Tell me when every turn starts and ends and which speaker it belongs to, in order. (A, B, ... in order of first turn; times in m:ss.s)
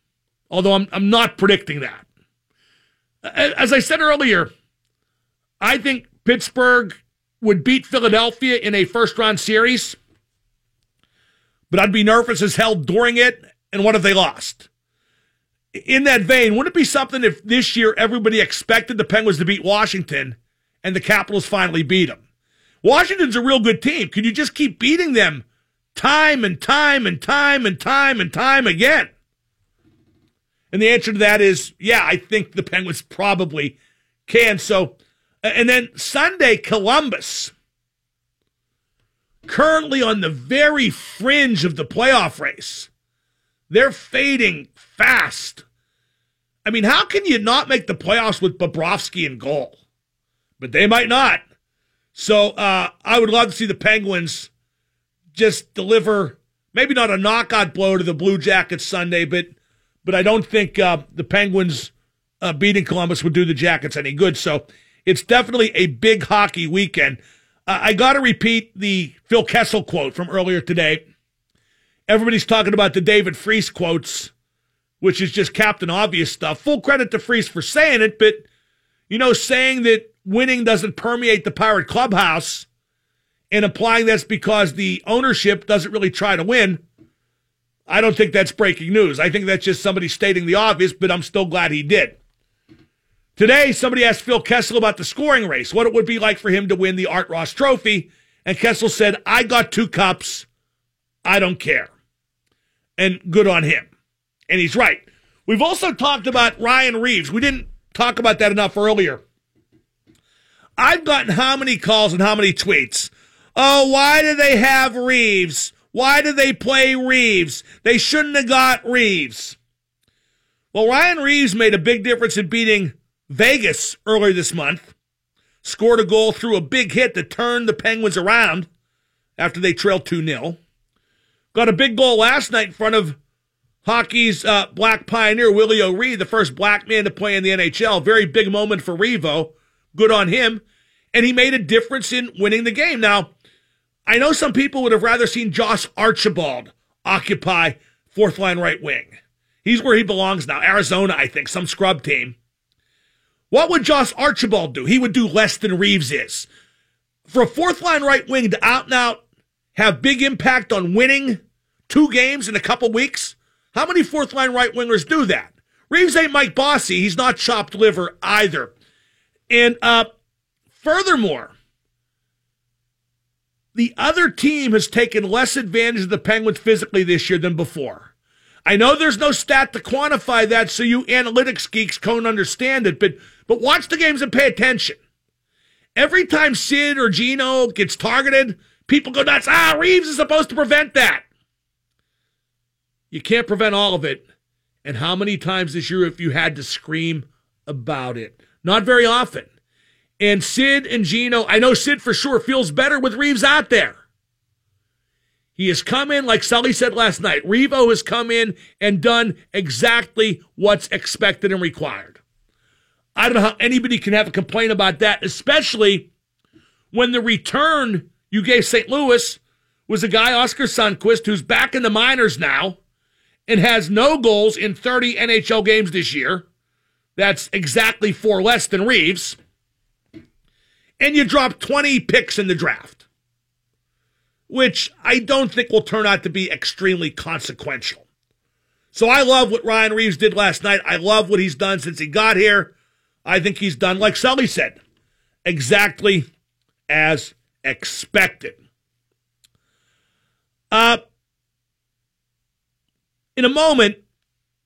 0:00.5-0:02.0 A
0:03.2-0:04.5 A
0:05.6-0:10.0 A
0:11.7-0:14.7 A
0:15.7-0:22.2 A
0:22.8-0:29.1 A
0:30.7-0:33.8 A
0:34.3-0:37.5 A
0:39.5-0:42.9 A
0:43.7-0:45.6 A
0:46.6-0:49.8 A
0:50.6-0:51.4 A
0:52.2-0:54.5 A
0:55.3-0:59.5 A
1:00.0-1:11.0 A
1:12.1-1:14.3 A
1:15.0-1:18.5 A
1:19.1-1:22.7 A
1:23.5-1:26.8 A
1:27.9-1:32.2 A
1:33.4-1:40.5 A
1:41.2-1:41.9 A
1:43.0-1:43.9 A
1:44.5-1:49.2 A
1:50.8-1:59.6 A
2:00.7-2:04.9 A
2:05.6-2:08.7 A
2:09.4-2:10.6 A
2:11.5-2:13.2 A
2:13.8-2:23.3 A
2:24.1-2:32.4 A
2:33.5-2:36.5 A
2:37.3-2:39.2 A
2:39.8-2:48.7 A
2:49.5-2:50.1 A
2:50.8-2:51.5 A
2:53.8-2:58.1 A
2:58.6-3:05.0 A
3:06.0-3:11.2 A
3:13.1-3:14.2 A
3:14.8-3:19.5 A
3:20.2-3:24.0 A
3:25.6-3:32.2 A
3:33.2-3:36.1 A
3:36.9-3:42.8 A
3:43.5-3:46.4 A
3:47.2-3:49.4 A
3:51.0-3:53.0 A
3:54.5-3:58.0 A
3:58.9-4:02.7 A
4:03.2-4:04.8 A
4:05.4-4:06.3 A
4:06.9-4:08.6 A
4:10.7-4:11.0 A
4:13.4-4:14.0 A